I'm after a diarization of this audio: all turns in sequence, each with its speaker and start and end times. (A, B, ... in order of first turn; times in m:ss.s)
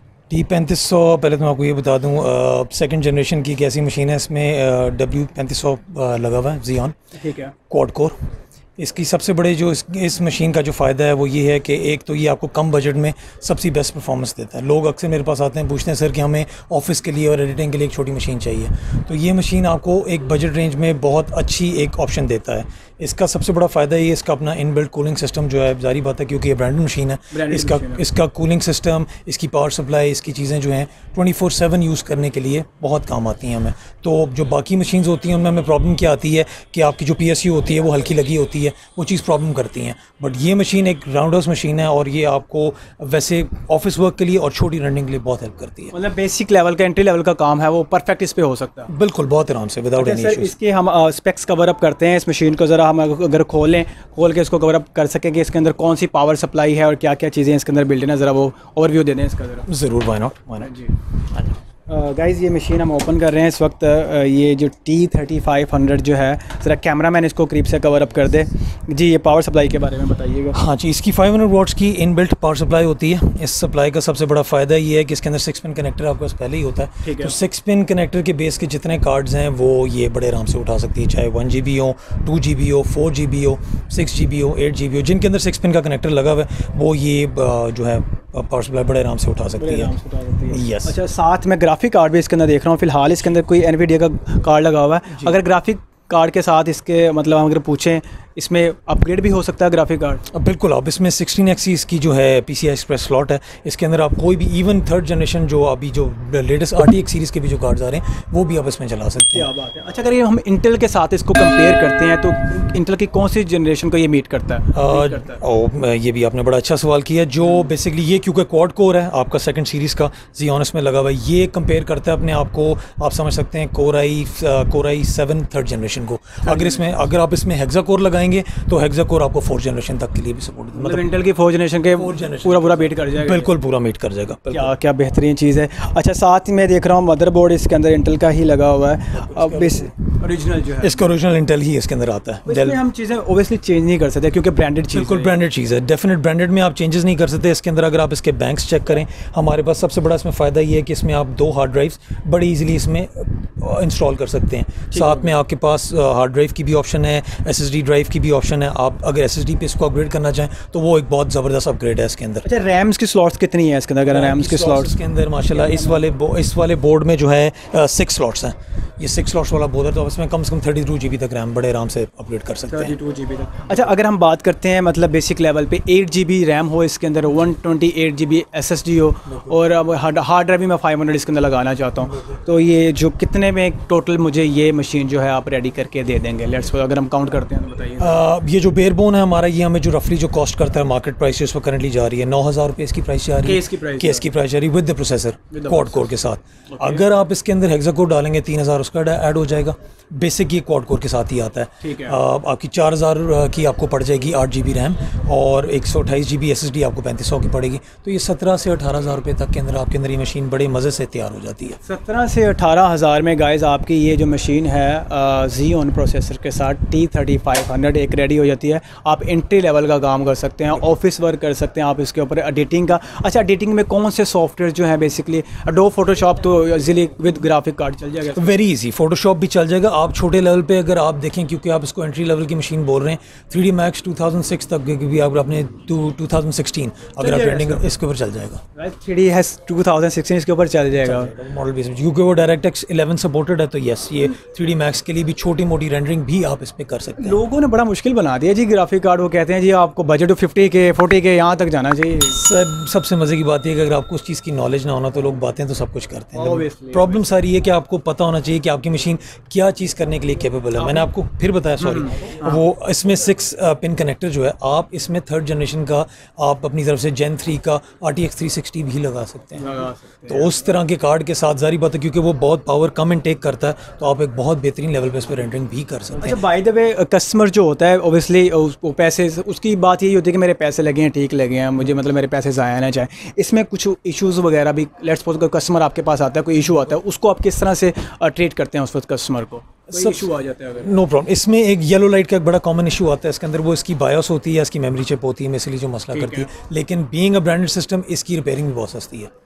0:00.3-0:07.0 A
0:07.2-0:07.5 B
0:07.7-0:08.2 A
0:08.8-0:45.9 A
0:27.3-0:28.0 B
0:45.9-0:48.9 B
0:48.9-0:50.5 A
0:50.0-0:59.7 B
0:59.7-1:00.7 A
1:00.6-1:01.0 B
1:01.3-1:01.6 A
1:01.9-1:10.6 B
1:10.5-1:29.9 A
1:17.0-1:17.4 B
1:29.6-1:40.2 B
1:30.5-1:31.0 A
1:35.1-1:35.4 A
1:40.3-1:49.5 A
1:49.3-1:55.4 B
1:54.7-2:11.0 A
1:57.4-1:57.7 B
2:06.4-2:07.0 B
2:10.8-2:13.5 B
2:11.9-2:14.7 A
2:14.5-2:21.1 B
2:19.1-2:19.9 A
2:20.8-2:22.8 A
2:22.4-2:25.3 B
2:24.9-2:42.5 A
2:34.9-2:35.3 B
2:42.4-2:45.0 B
2:44.1-2:53.0 A
2:45.6-2:46.0 B
2:52.7-3:08.2 B
3:08.0-3:31.8 A
3:13.4-3:14.3 B
3:15.5-3:16.1 B
3:16.7-3:17.0 B
3:21.8-3:22.2 B
3:31.8-3:48.5 B
3:48.3-3:58.6 A
3:57.2-3:58.0 B
3:58.8-4:01.3 B
4:01.0-4:07.4 A
4:07.2-4:12.4 B
4:12.3-4:29.8 A
4:16.4-4:17.2 B
4:20.8-4:21.1 B
4:21.8-4:22.7 B
4:29.6-4:30.5 B
4:30.3-4:36.4 A
4:36.2-4:50.9 B
4:49.9-4:59.3 A
4:56.1-4:56.5 B